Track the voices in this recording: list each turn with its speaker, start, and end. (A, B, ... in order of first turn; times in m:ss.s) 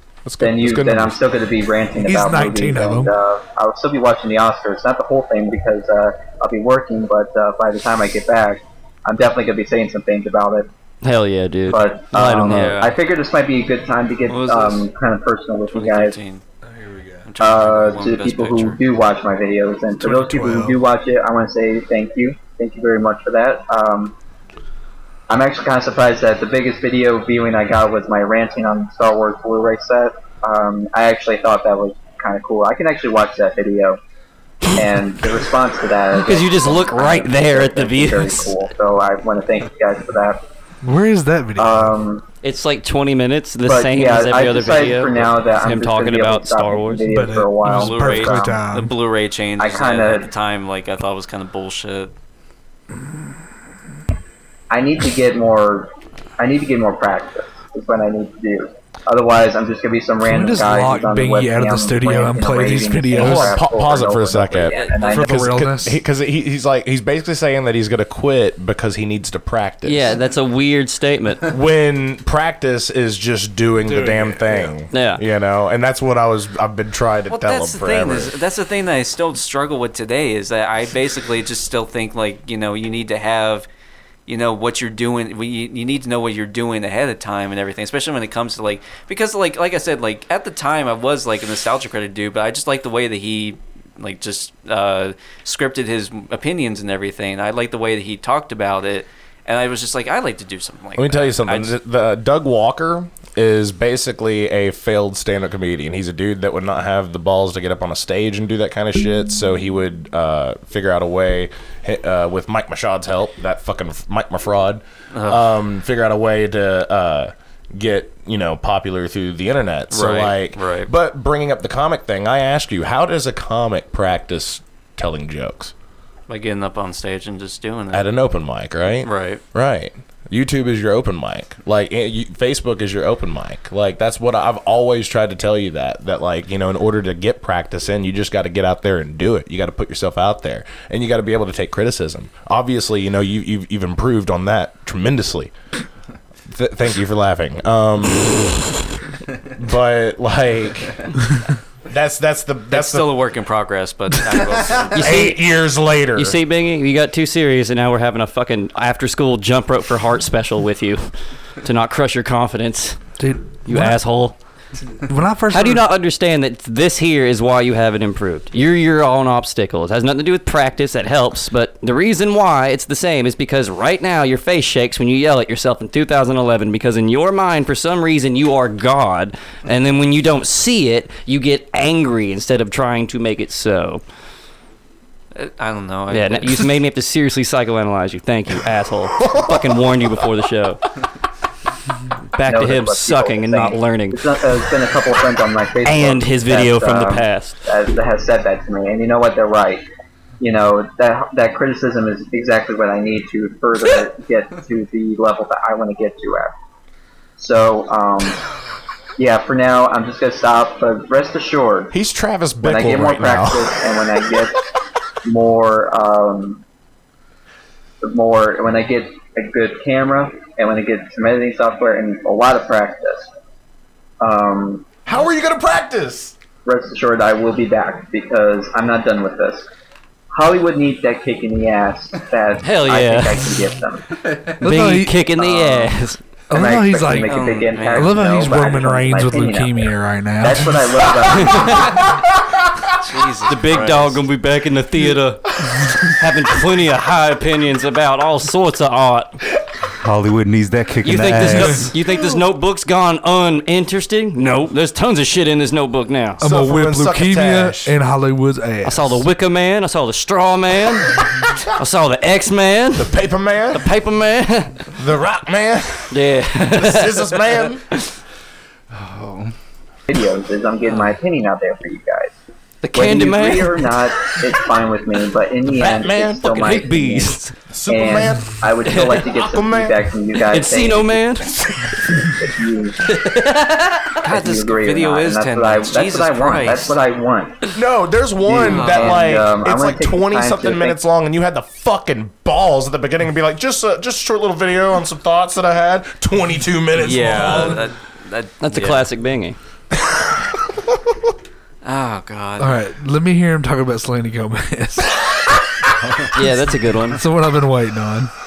0:00.2-0:01.2 A
0:00.4-0:10.7 B
0:02.0-0:03.1 C
0:11.0-0:12.9 D
0:11.7-0:16.2 B
0:12.4-0:12.9 E
0:14.3-0:14.8 E
0:15.7-0:16.4 E
0:16.7-0:17.3 C
0:17.2-0:18.8 E
0:17.4-0:24.1 B
0:20.0-0:20.8 C
0:25.3-0:34.0 B
0:34.7-0:40.4 B
0:36.2-0:38.6 D
0:40.8-0:41.9 C
0:41.6-0:42.2 B
0:42.4-0:47.0 D
0:43.6-0:48.6 B
0:47.1-0:48.9 C
0:47.7-0:52.1 E
0:49.6-0:50.3 B
0:54.7-1:05.5 B
1:00.2-1:03.6 C
1:03.1-1:10.2 A
1:04.7-1:05.1 D
1:05.1-1:06.0 C
1:09.8-1:11.4 D
1:11.4-1:18.3 A
1:13.9-1:14.4 C
1:14.9-1:15.2 D
1:17.3-1:23.7 E
1:24.3-1:41.8 E
1:41.0-2:05.7 A
1:55.1-1:55.4 E
1:59.9-2:00.9 E
2:06.3-2:08.0 E
2:07.9-2:25.5 A
2:09.0-2:09.4 E
2:26.5-2:28.8 A
2:29.4-2:31.2 A
2:31.9-2:33.2 A
2:32.7-2:35.3 E
2:34.9-2:36.4 A
2:34.9-2:35.4 D
2:36.1-2:41.1 D
2:41.6-2:43.0 D
2:43.2-2:44.0 C
2:43.6-2:44.4 D
2:45.1-2:45.8 C
2:45.5-3:04.0 D
3:05.3-3:06.7 E
3:06.1-3:10.8 D
3:09.2-3:10.0 A
3:12.3-3:14.2 D
3:12.4-3:19.8 B
3:15.8-3:17.6 D
3:20.4-3:26.5 B
3:27.4-3:28.4 B
3:29.2-3:31.9 B
3:31.9-3:33.8 A
3:32.6-3:34.6 B
3:35.2-3:36.6 B
3:38.0-3:43.3 B
3:44.2-3:44.9 B
3:45.0-3:46.3 A
3:46.6-3:49.7 B
3:50.3-3:54.4 B
3:52.6-3:53.5 D
3:54.6-3:55.3 C
3:54.6-3:56.2 D
3:55.4-3:56.0 B
3:56.5-4:00.8 C
3:56.5-4:02.1 B
3:57.2-3:58.5 E
4:01.2-4:02.0 D
4:02.9-4:04.2 E
4:03.5-4:09.4 D
4:10.0-4:11.9 F
4:11.0-4:16.4 D
4:16.4-4:17.9 A
4:16.4-4:19.2 C
4:18.8-4:21.2 D
4:21.8-4:23.2 D
4:22.9-4:23.9 A
4:23.7-4:24.8 D
4:24.9-4:27.8 A
4:26.1-4:28.1 D
4:28.9-4:29.5 F
4:30.1-4:32.3 B
4:32.8-4:33.9 D
4:32.9-4:41.2 B
4:35.7-4:36.8 A
4:36.4-4:37.5 D
4:37.7-4:38.6 A
4:38.8-4:39.2 D
4:39.3-4:40.0 A
4:40.4-4:41.5 D
4:42.1-4:43.0 B
4:43.1-4:44.2 D
4:44.2-4:47.0 E
4:44.3-4:47.7 B
4:47.7-4:57.8 A
4:48.4-4:51.0 B
4:48.6-4:49.3 E
4:57.0-4:59.1 E
4:57.2-4:57.8 C
4:58.6-4:59.6 D
5:01.8-5:02.8 E
5:02.6-5:05.2 C
5:06.3-5:07.2 D
5:07.1-5:08.3 C